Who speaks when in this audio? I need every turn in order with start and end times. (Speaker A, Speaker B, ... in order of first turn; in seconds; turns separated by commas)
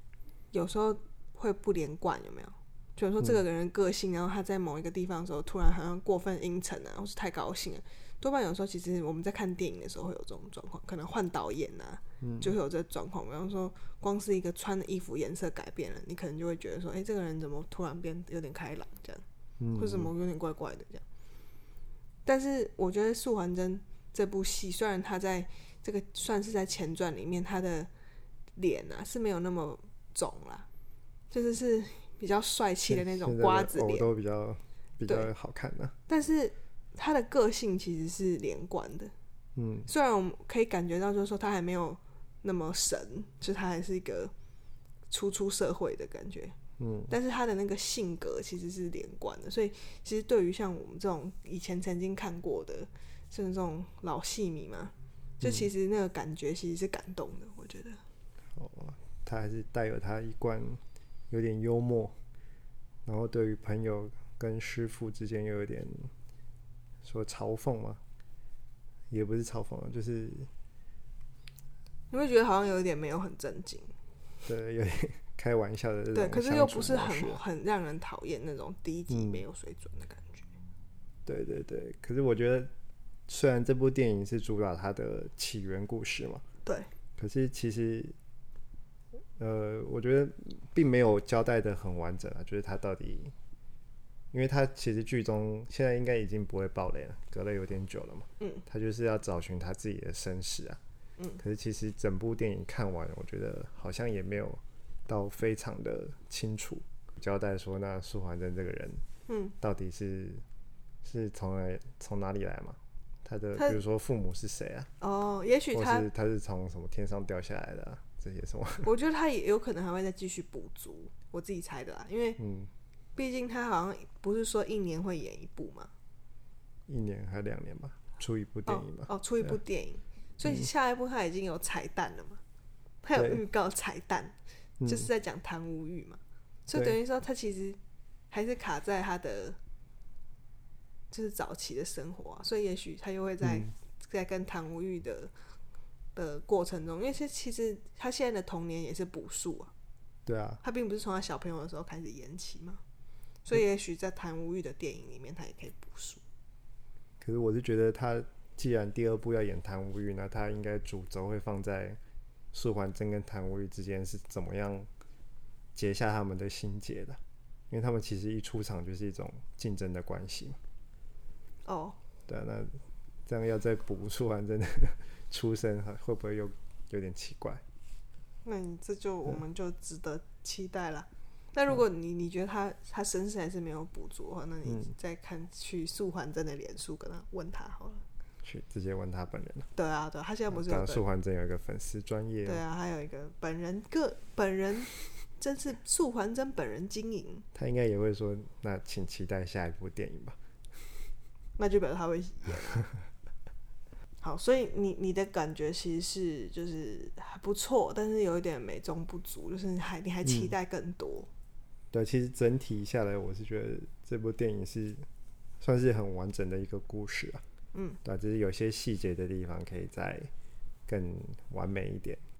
Speaker A: 0.5-19.2, Speaker B: 12.2-12.5, Speaker B: 19.6-20.1, Speaker A: 19.8-21.0, Speaker A: 22.2-27.9, Speaker A: 28.6-30.7, Speaker A: 31.3-34.1, Speaker B: 32.9-36.0, Speaker A: 35.0-35.3, Speaker A: 36.1-39.1, Speaker B: 39.5-39.9, Speaker A: 39.9-44.3, Speaker A: 45.1-46.5, Speaker B: 46.8-47.1, Speaker A: 47.1-58.0, Speaker B: 55.4-55.7, Speaker B: 58.5-62.1, Speaker B: 63.0-66.1, Speaker B: 67.0-68.0, Speaker B: 69.1-70.5, Speaker A: 72.1-73.9, Speaker B: 74.4-77.4, Speaker A: 76.1-80.5, Speaker B: 79.1-79.4, Speaker B: 81.2-82.7, Speaker B: 83.3-86.4, Speaker B: 87.2-88.2, Speaker B: 89.4-93.3, Speaker B: 94.3-100.8, Speaker B: 101.4-109.0, Speaker A: 109.3-109.5, Speaker B: 109.6-110.4, Speaker B: 111.0-114.9, Speaker A: 115.0-116.1, Speaker B: 115.7-118.9, Speaker A: 118.8-122.4, Speaker B: 122.4-122.7, Speaker A: 123.2-125.9, Speaker B: 126.9-129.6, Speaker A: 128.7-132.4, Speaker A: 133.0-137.8, Speaker B: 133.2-133.4, Speaker B: 134.8-135.1, Speaker A: 138.3-139.6, Speaker A: 141.1-145.3, Speaker B: 143.4-143.7, Speaker A: 146.1-149.7, Speaker B: 150.2-150.6, Speaker A: 150.6-152.8, Speaker A: 153.4-156.2, Speaker B: 157.2-162.0, Speaker B: 162.5-164.9, Speaker B: 165.7-170.6, Speaker A: 171.6-172.0, Speaker B: 172.3-177.6, Speaker A: 178.4-188.0, Speaker B: 184.7-184.9, Speaker B: 188.4-189.7, Speaker A: 189.8-191.0, Speaker B: 190.5-192.6, Speaker A: 192.4-197.4, Speaker B: 197.5-200.4, Speaker A: 201.6-202.9, Speaker A: 204.2-211.3, Speaker B: 210.2-210.5, Speaker B: 211.9-215.1, Speaker B: 215.6-217.4, Speaker A: 217.7-218.0, Speaker B: 218.0-220.3, Speaker B: 220.9-222.2